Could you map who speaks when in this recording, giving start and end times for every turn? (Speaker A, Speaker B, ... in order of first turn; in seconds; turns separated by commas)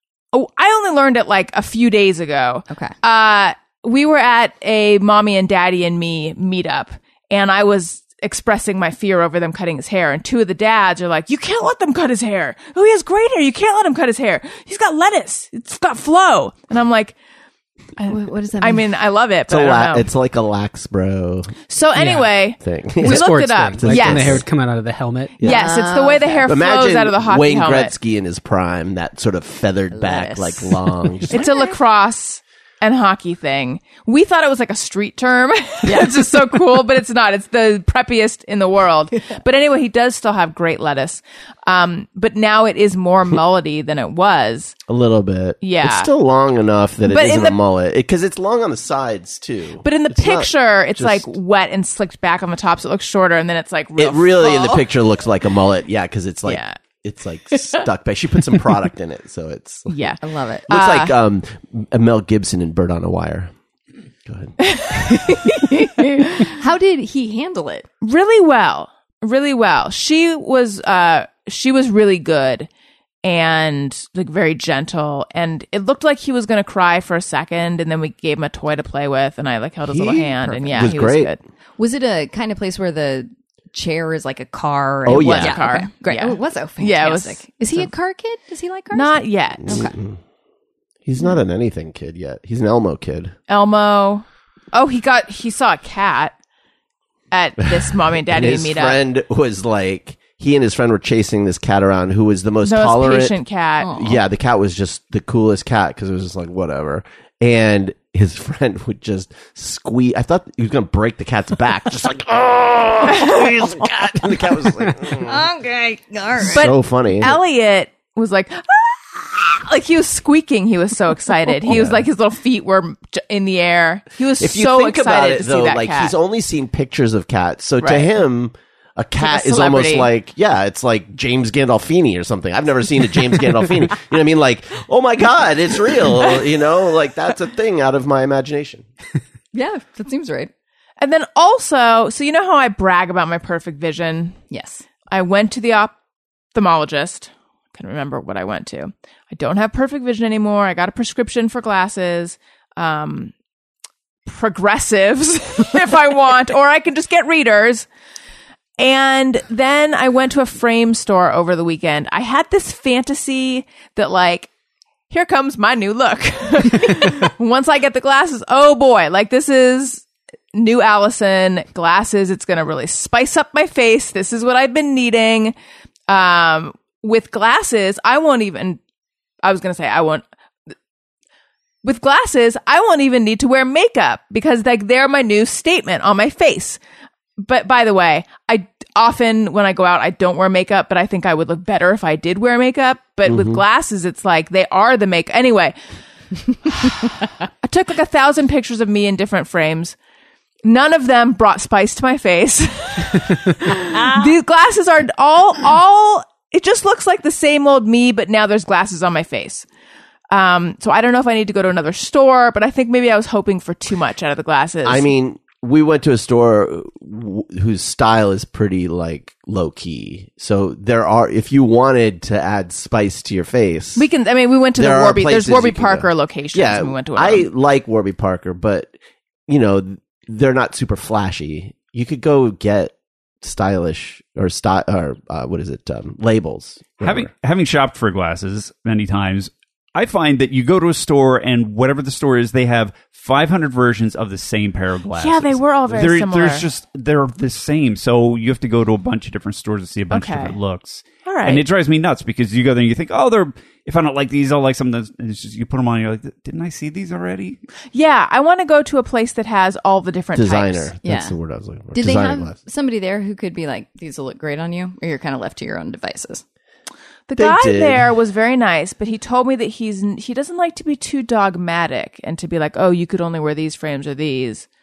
Speaker A: 0.3-17.2, Speaker A: 18.0-20.1, Speaker B: 18.1-18.8, Speaker C: 19.5-21.6, Speaker A: 21.7-24.4, Speaker D: 22.0-22.3, Speaker C: 22.6-24.4, Speaker D: 23.0-25.4, Speaker B: 25.4-26.5, Speaker A: 25.4-27.9, Speaker C: 26.5-31.4, Speaker B: 29.9-31.8, Speaker A: 31.3-44.8, Speaker B: 35.8-36.3, Speaker C: 44.9-51.3, Speaker A: 45.6-46.1, Speaker A: 47.1-47.6, Speaker A: 49.8-54.9, Speaker C: 54.0-60.0, Speaker A: 56.5-56.8, Speaker A: 59.9-61.1, Speaker B: 60.2-60.7, Speaker C: 60.7-63.5, Speaker C: 64.3-65.3, Speaker A: 64.6-66.5, Speaker B: 65.5-67.9, Speaker A: 68.0-72.7, Speaker A: 73.2-81.4, Speaker C: 79.9-81.3, Speaker B: 81.8-90.0, Speaker A: 85.0-87.9, Speaker C: 85.1-85.7, Speaker A: 88.9-89.8, Speaker C: 89.7-90.2, Speaker C: 91.1-93.3, Speaker A: 93.5-96.3, Speaker A: 97.3-99.0, Speaker C: 98.3-103.4, Speaker A: 102.7-104.0, Speaker B: 103.8-104.2, Speaker C: 103.9-115.4, Speaker B: 115.1-116.7, Speaker C: 116.4-117.4, Speaker A: 116.5-126.1, Speaker C: 121.7-122.0, Speaker C: 124.4-138.8, Speaker A: 127.8-128.1, Speaker A: 129.2-130.1, Speaker B: 139.5-140.5, Speaker A: 141.0-144.4, Speaker B: 144.5-144.8, Speaker A: 145.1-146.0, Speaker A: 146.5-153.3, Speaker A: 154.3-157.9, Speaker A: 158.8-164.5, Speaker A: 165.1-175.6, Speaker A: 176.1-178.8, Speaker A: 179.4-180.2, Speaker A: 181.8-186.8, Speaker A: 187.4-195.8, Speaker C: 193.3-193.6, Speaker A: 196.7-200.0, Speaker A: 200.6-209.7, Speaker A: 210.3-215.1, Speaker C: 214.8-224.1, Speaker A: 224.0-227.5, Speaker C: 224.8-228.9, Speaker C: 229.5-237.3, Speaker E: 237.0-257.6, Speaker A: 245.1-246.7, Speaker A: 250.1-250.6, Speaker A: 251.2-251.7, Speaker A: 257.9-260.9, Speaker C: 260.4-262.6, Speaker B: 261.0-261.4, Speaker B: 261.9-266.4, Speaker A: 267.3-274.7, Speaker C: 267.4-268.1